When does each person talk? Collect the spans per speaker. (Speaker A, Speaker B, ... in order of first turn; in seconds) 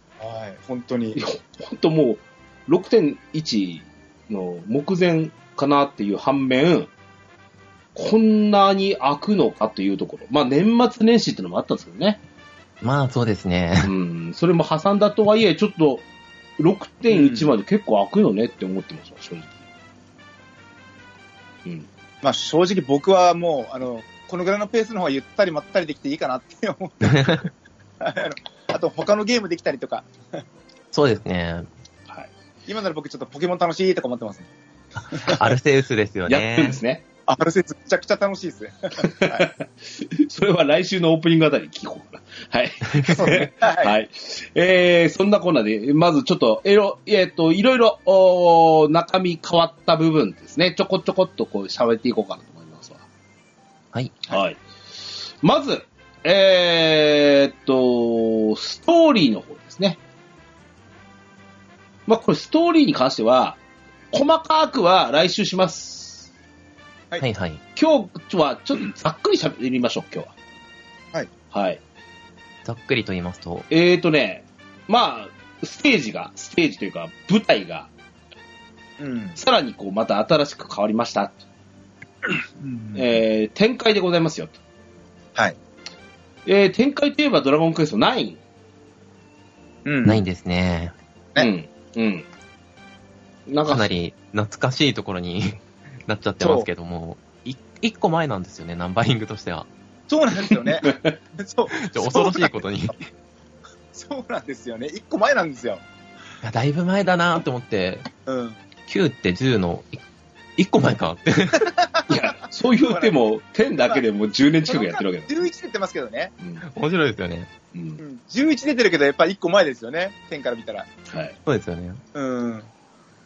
Speaker A: 0.2-1.2, 17.1-17.5, 22.2-27.4, 28.0-30.4, 32.7-34.5, 35.1-35.4, 37.3-39.5, 43.0-43.9, 79.0-79.4, 82.6-83.2, 89.8-90.2, 96.4-96.7, 100.1-102.6, 103.9-105.8, 108.2-108.6, 111.7-112.2, 112.9-113.2, 114.7-116.3, 118.0-120.9, 122.1-122.7
Speaker B: 1.1-6.9, 7.9-12.2, 13.8-16.0, 16.6-19.6, 36.3-37.0, 39.0-53.0, 54.3-54.6, 55.4-60.0, 62.1-63.6, 64.1-66.3, 67.8-70.3, 71.5-71.8, 73.7-77.9, 79.4-81.4, 82.9-84.5, 86.5-88.4, 91.4-92.2, 93.5-93.9, 100.8-101.1, 112.1-115.3, 117.7-118.0, 121.1-121.3
Speaker C: 12.8-13.9, 27.0-27.5, 30.9-31.7, 35.0-36.8, 53.9-54.2, 67.2-67.6, 72.6-73.7, 90.0-90.9, 93.7-99.7, 101.7-103.0, 106.4-108.1, 108.9-110.0, 110.6-111.8, 116.7-117.5, 121.5-122.0